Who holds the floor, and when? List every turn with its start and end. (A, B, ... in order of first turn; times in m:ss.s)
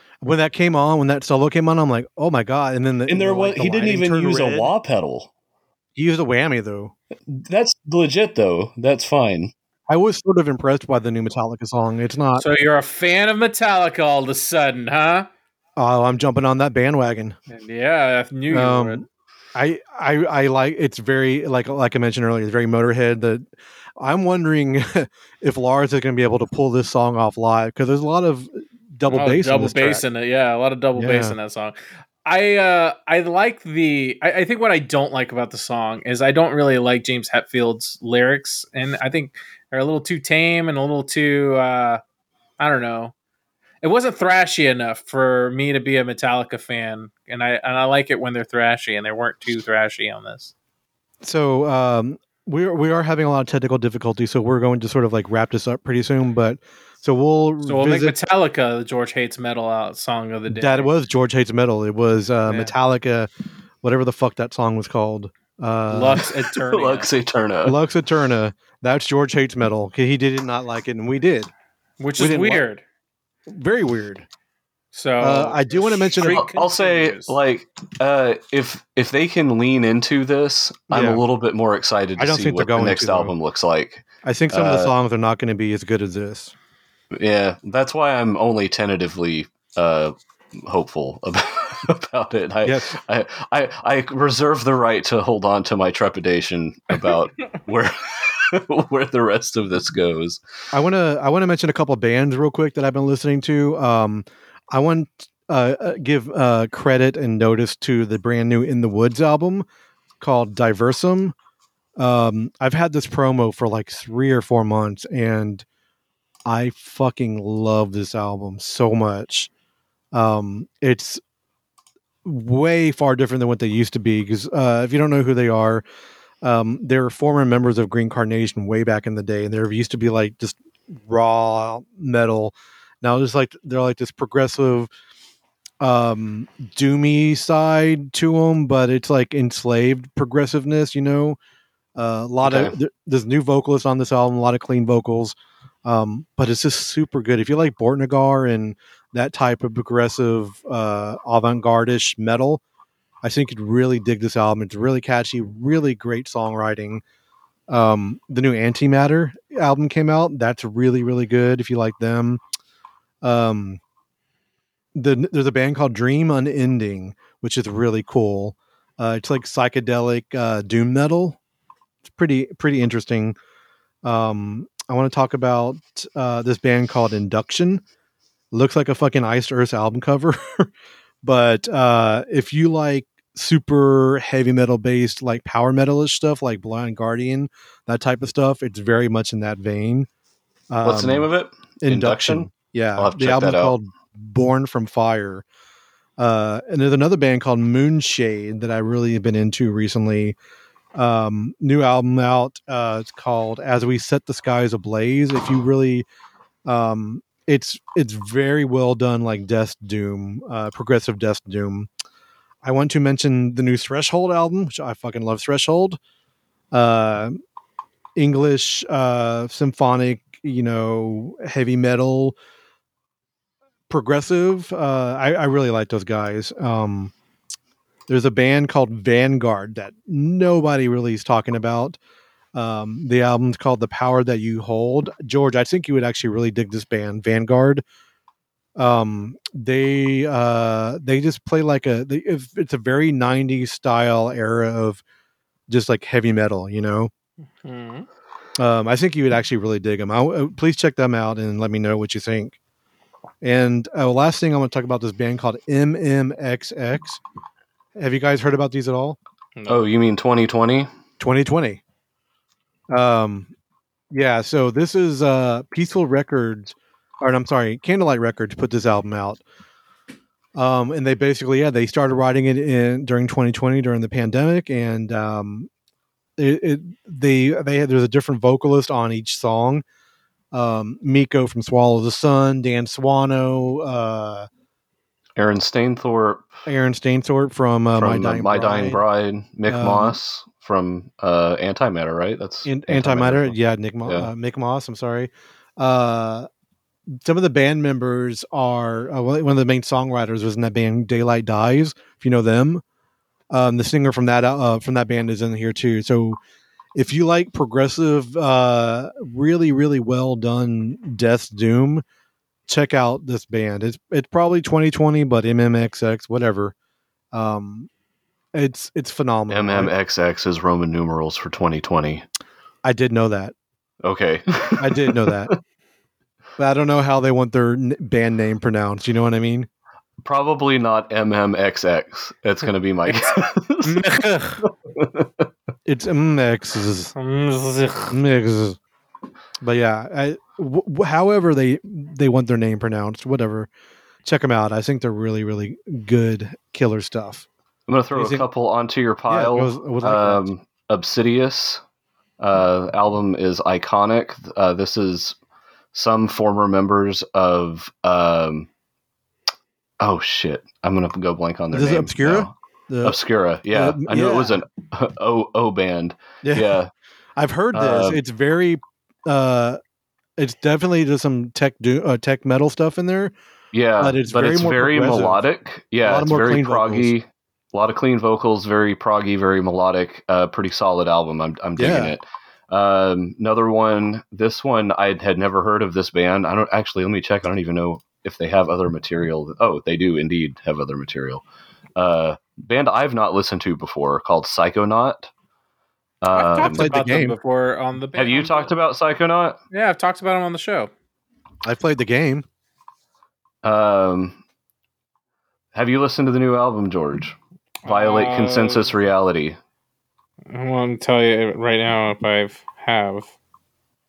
0:00.2-0:04.7 A
0:03.1-0:05.3 B
0:06.0-0:06.9 A
0:07.3-0:09.5 B
0:09.9-0:12.4 A
0:12.4-0:15.3 C
0:15.8-0:17.4 A
0:17.5-0:19.0 C
0:18.5-0:19.0 A
0:19.6-0:23.4 A
0:24.0-0:30.0 A
0:29.1-0:42.0 C
0:31.0-0:31.4 A
0:42.6-0:43.1 C
0:43.8-0:50.5 C
0:51.2-0:58.2 A
0:57.6-1:00.9 C
1:00.5-1:03.3 A
1:02.5-1:02.7 C
1:03.8-1:06.3 A
1:05.9-1:07.1 C
1:06.6-1:07.8 B
1:07.6-1:11.5 A
1:12.0-1:12.8 C
1:12.2-1:12.6 A
1:13.5-1:14.3 A
1:14.9-1:17.4 C
1:15.2-1:16.4 A
1:16.2-1:24.9 B
1:20.9-1:21.2 A
1:22.2-1:23.3 A
1:24.2-1:26.5 A
1:27.1-1:40.4 B
1:32.6-1:33.0 A
1:40.7-1:49.6 A
1:50.2-1:51.3 A
1:52.0-1:55.6 A
1:56.5-1:59.5 A
2:00.1-2:01.2 A
2:02.2-2:05.8 A
2:06.4-2:14.9 A
2:15.8-2:21.4 A
2:22.0-2:32.6 A
2:22.4-2:22.8 B
2:33.2-2:37.0 A
2:37.7-2:42.4 A
2:43.2-2:43.8 A
2:45.0-2:51.4 A
2:52.0-2:53.4 A
2:54.0-2:57.8 A
2:58.5-3:00.7 A
3:01.2-3:10.1 A
3:10.7-3:11.3 A
3:10.8-3:13.8 B
3:11.8-3:15.4 A
3:16.2-3:20.4 A
3:21.0-3:26.0 A
3:26.7-3:31.9 A
3:32.6-3:36.0 A
3:36.7-3:37.4 A
3:38.2-3:42.4 A
3:43.9-3:47.1 A
3:48.1-3:52.0 A
3:52.6-3:57.8 A
3:58.8-4:05.0 A
4:05.7-4:07.1 A
4:07.6-4:08.1 C
4:08.6-4:12.6 A
4:13.4-4:17.2 A
4:18.0-4:19.2 A
4:19.6-4:19.9 C
4:19.7-4:20.9 B
4:21.2-4:21.8 A
4:22.9-4:23.5 A
4:24.1-4:29.4 A
4:30.6-4:35.7 A
4:36.4-4:39.8 A
4:40.5-4:44.5 A
4:45.4-4:46.5 B
4:46.7-4:49.0 A
4:48.0-4:54.3 B
4:49.7-4:50.2 A
4:52.6-4:56.5 A
4:57.2-5:02.8 A
5:03.5-5:06.4 A
5:07.0-5:12.0 A
5:12.7-5:16.7 A
5:17.3-5:17.9 A
5:18.5-5:19.9 A
5:19.5-5:22.3 B
5:22.8-5:23.5 A
5:24.0-5:25.6 B
5:24.8-5:25.6 A
5:26.6-5:29.7 A
5:30.2-5:34.0 B
5:33.9-5:34.6 A
5:34.8-5:35.5 B
5:35.9-5:37.1 A
5:37.2-5:38.2 C
5:38.1-5:38.8 A
5:39.6-5:43.7 A
5:44.2-5:47.5 A
5:47.9-5:51.8 B
5:48.1-5:48.5 A
5:49.3-5:50.4 A
5:52.4-5:55.4 B
5:55.9-5:58.7 B
6:00.0-6:02.5 B
6:01.7-6:03.2 A
6:03.0-6:06.9 B
6:03.7-6:04.6 A
6:06.4-6:06.8 A
6:07.4-6:09.8 A
6:07.7-6:08.2 B
6:10.4-6:13.3 A
6:13.7-6:31.4 B
6:14.0-6:15.4 A
6:16.0-6:17.1 A
6:21.8-6:22.2 A
6:32.0-6:35.3 B
6:36.2-6:36.9 B
6:36.3-6:38.7 C
6:36.6-6:37.4 A
6:38.2-6:39.6 B
6:39.7-6:40.9 C
6:41.6-6:42.4 A
6:43.6-6:44.4 B
6:45.7-6:49.6 B
6:47.8-6:48.9 C
6:50.5-6:53.3 C